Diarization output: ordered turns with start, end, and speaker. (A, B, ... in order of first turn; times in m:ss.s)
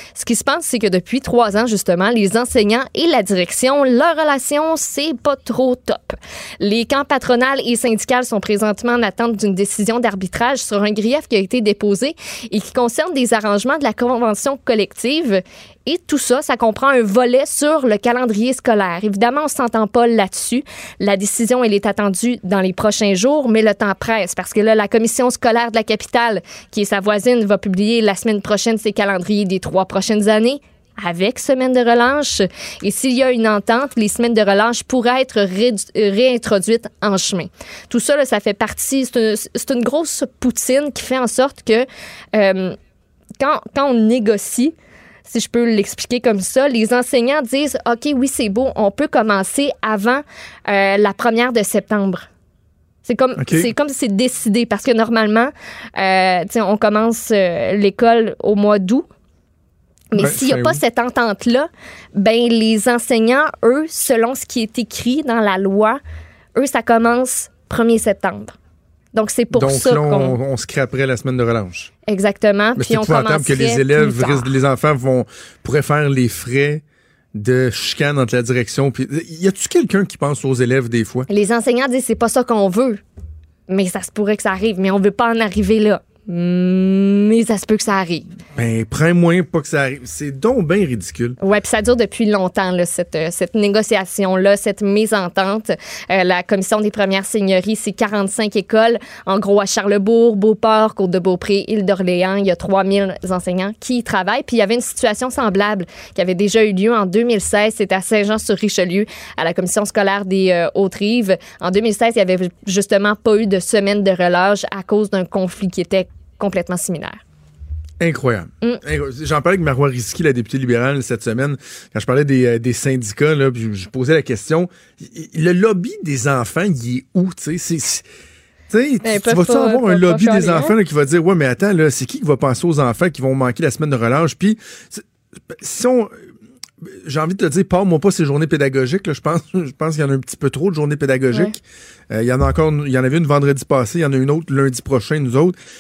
0:00.2-0:42.8 A
0:43.4-0:44.7 A
0:45.3-0:52.3 A
0:53.0-0:59.1 A
0:53.4-0:53.7 B
1:00.1-1:06.0 A
1:00.2-1:00.8 B
1:06.6-1:08.6 A
1:09.1-1:10.4 A
1:09.5-1:11.9 B
1:12.1-1:14.5 A
1:12.8-1:16.8 B
1:17.4-1:21.3 B
1:21.3-1:23.0 A
1:23.7-1:28.3 A
1:28.6-1:31.4 B
1:31.4-1:57.2 A
1:58.0-2:08.0 B
2:08.7-2:16.1 B
2:09.0-2:10.7 A
2:17.0-2:21.6 B
2:22.1-2:25.6 B